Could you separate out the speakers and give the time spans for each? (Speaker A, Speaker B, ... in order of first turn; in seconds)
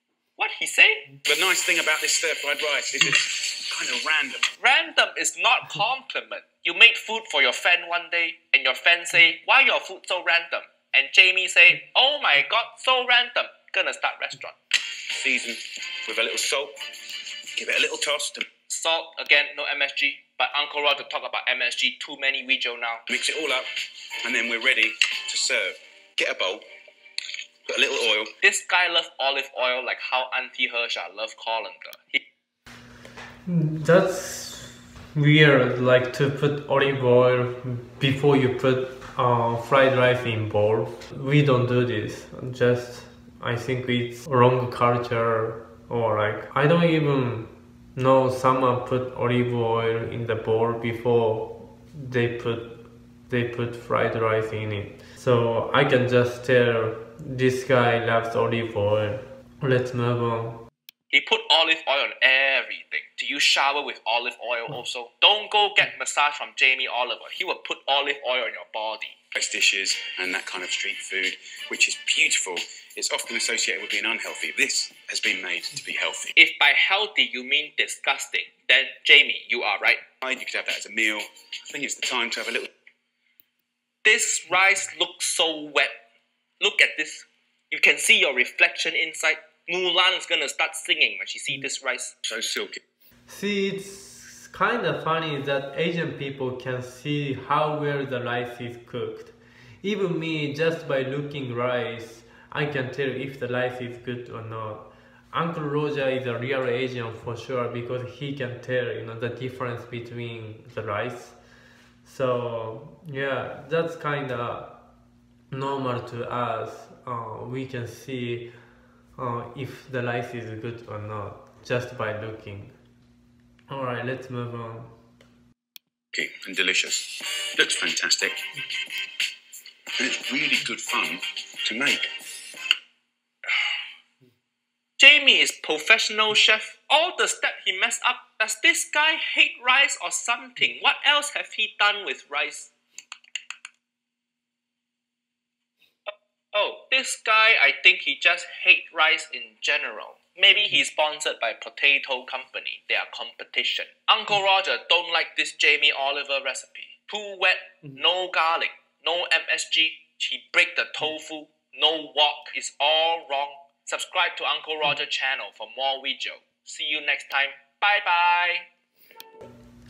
Speaker A: 0.4-1.2, 4.6-14.6, 18.7-23.1, 28.4-32.2, 61.1-69.1, 76.3-80.0, 84.0-85.9, 86.6-92.1, 135.0-142.7, 146.1-168.7
Speaker B: 1.2-4.5, 15.1-16.7, 17.6-18.5, 23.1-23.7, 24.2-26.6, 27.6-28.4, 69.3-76.3, 80.2-82.7, 92.2-92.8, 126.1-128.4, 130.0-132.1
Speaker C: 33.5-60.6, 93.3-111.3, 112.0-114.8, 115.5-118.5, 119.2-122.8, 123.7-124.9